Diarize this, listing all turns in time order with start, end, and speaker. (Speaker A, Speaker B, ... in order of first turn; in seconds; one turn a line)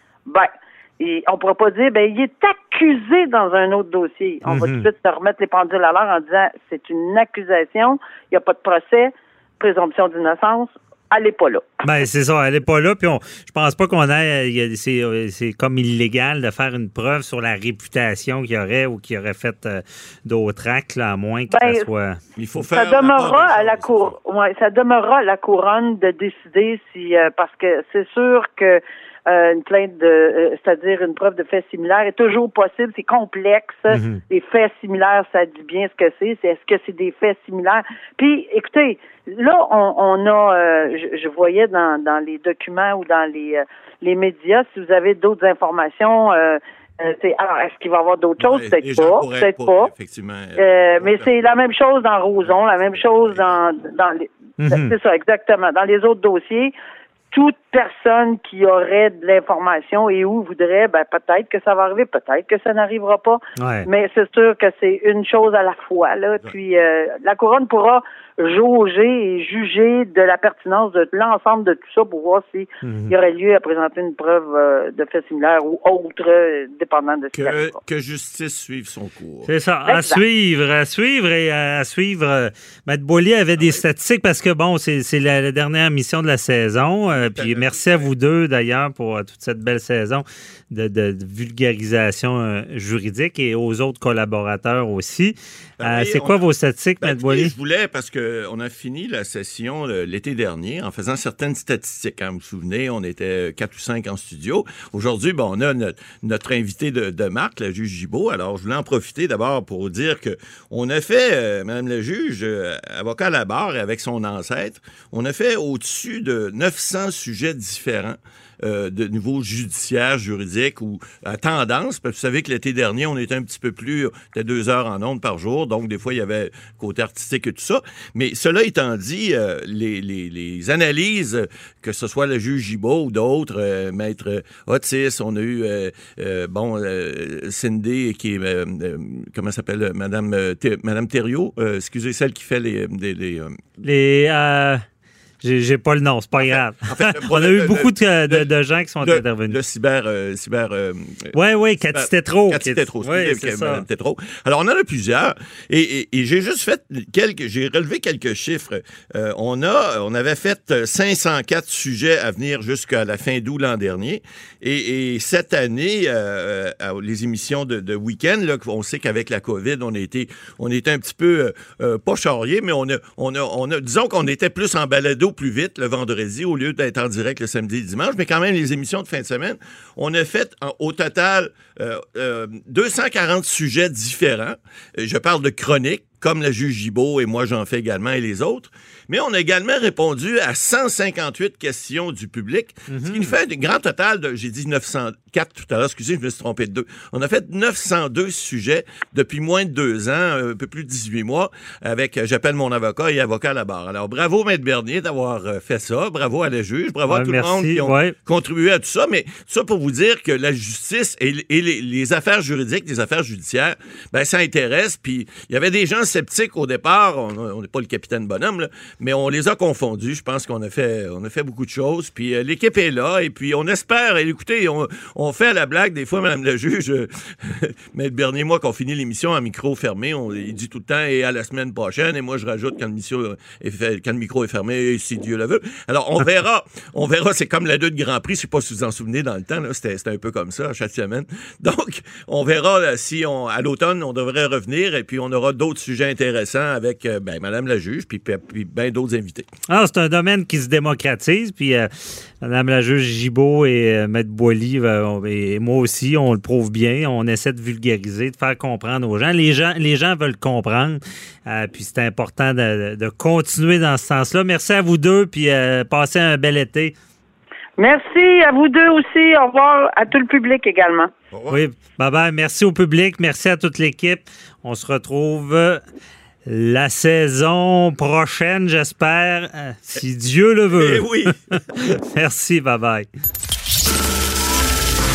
Speaker A: 0.3-11.8
Speaker B: 4.5-4.9
Speaker B: 11.8-22.2
Speaker A: 21.5-21.9
Speaker C: 22.4-24.1
Speaker A: 22.7-49.9
Speaker B: 33.9-34.2
Speaker C: 48.4-51.4
Speaker A: 50.6-56.7
Speaker C: 52.4-53.6
Speaker B: 54.6-54.9
Speaker A: 57.3-77.8
Speaker B: 63.6-63.9
Speaker B: 72.8-73.1
Speaker C: 77.3-79.5
Speaker B: 79.5-97.5
Speaker A: 79.8-80.2
Speaker C: 87.1-88.1
Speaker C: 95.8-96.4
Speaker C: 97.0-143.6
Speaker B: 143.8-144.8
Speaker B: 145.4-149.6
Speaker C: 146.4-148.5
Speaker C: 149.0-151.3
Speaker B: 151.3-153.8
Speaker C: 151.9-249.5
Speaker B: 192.9-193.3
Speaker B: 207.1-208.1
Speaker B: 249.7-251.9
Speaker B: 252.4-266.9
Speaker A: 267.8-271.1
Speaker C: 271.3-271.6
Speaker B: 271.5-275.8
Speaker B: 276.5-283.1
Speaker C: 280.7-281.6